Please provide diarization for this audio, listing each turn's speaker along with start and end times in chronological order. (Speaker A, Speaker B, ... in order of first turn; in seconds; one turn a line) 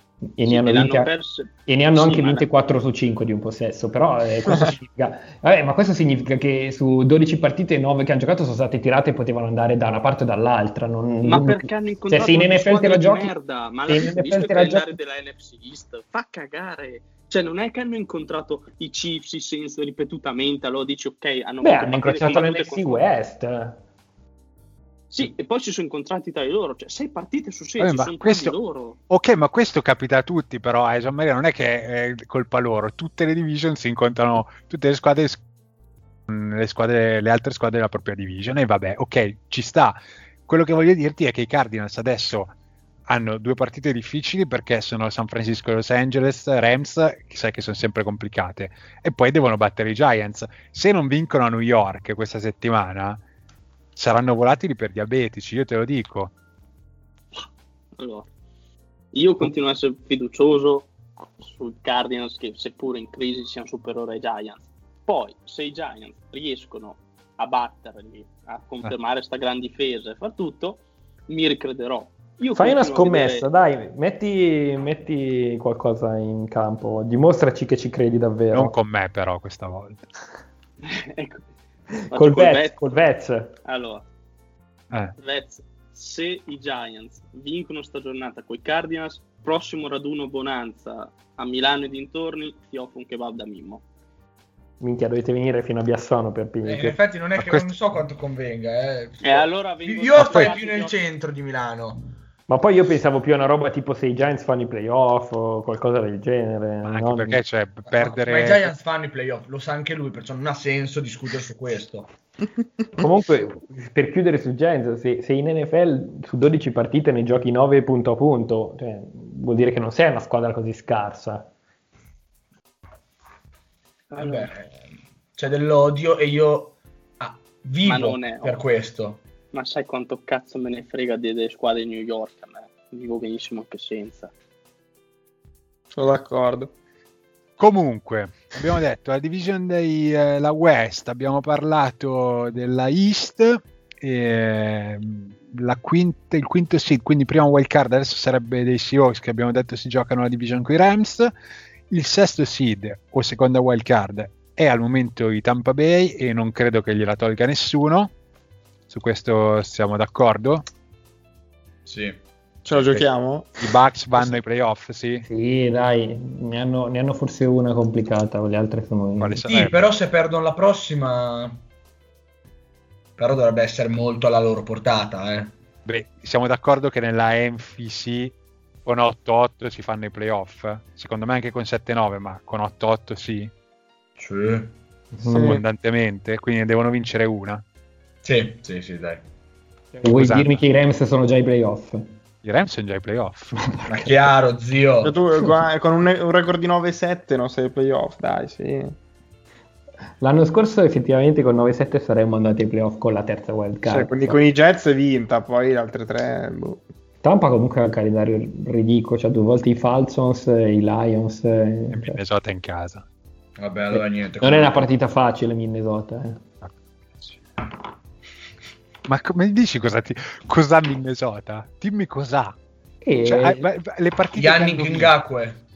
Speaker A: 0.4-1.1
Speaker B: 0.5-2.5
Speaker A: 1.7-13.3
Speaker B: 11.2-23.0
Speaker A: 13.9-14.9
Speaker A: 21.6-23.8
Speaker B: 25.1-29.0
Speaker C: 27.8-28.6
Speaker C: 29.1-35.4
Speaker C: 36.3-42.5
Speaker C: 43.1-53.2
Speaker C: 54.0-56.3
Speaker B: 58.0-58.3
Speaker B: 59.1-73.5
Speaker A: 72.5-78.8
Speaker C: 78.5-80.1
Speaker B: 80.9-81.4
Speaker B: 82.1-82.8
Speaker A: 82.1-83.6
Speaker B: 83.7-84.0
Speaker B: 85.2-93.8
Speaker A: 94.8-97.0
Speaker D: 96.6-102.0
Speaker C: 97.4-97.7
Speaker B: 99.2-101.0
Speaker C: 100.2-100.5
Speaker A: 102.5-107.4
Speaker C: 106.8-108.7
Speaker D: 107.9-112.1
Speaker A: 113.0-121.5
Speaker B: 124.1-124.5
Speaker D: 124.2-129.2
Speaker B: 127.8-128.6
Speaker B: 129.5-134.3
Speaker E: 135.9-136.7
Speaker C: 137.6-151.3
Speaker C: 151.9-158.1
Speaker C: 158.9-160.7
Speaker D: 161.8-162.2
Speaker E: 162.7-163.7
Speaker C: 163.6-165.2
Speaker A: 165.3-169.4
Speaker C: 169.2-169.9
Speaker D: 169.4-171.6
Speaker D: 173.2-175.5
Speaker C: 175.9-178.3
Speaker C: 178.8-183.5
Speaker D: 184.2-184.7
Speaker A: 185.1-185.6
Speaker C: 185.3-187.6
Speaker E: 185.3-185.6
Speaker D: 188.2-189.2
Speaker A: 190.0-192.1
Speaker C: 190.0-190.6
Speaker C: 192.4-193.8
Speaker A: 193.6-194.1
Speaker D: 193.9-195.2
Speaker E: 195.0-199.0
Speaker A: 200.2-204.4
Speaker E: 203.9-206.8
Speaker A: 207.2-212.2
Speaker C: 211.9-213.1
Speaker D: 213.6-214.9
Speaker A: 213.9-216.4
Speaker C: 216.6-217.4
Speaker C: 219.1-222.6
Speaker A: 223.0-223.7
Speaker C: 223.2-225.1
Speaker D: 224.3-225.6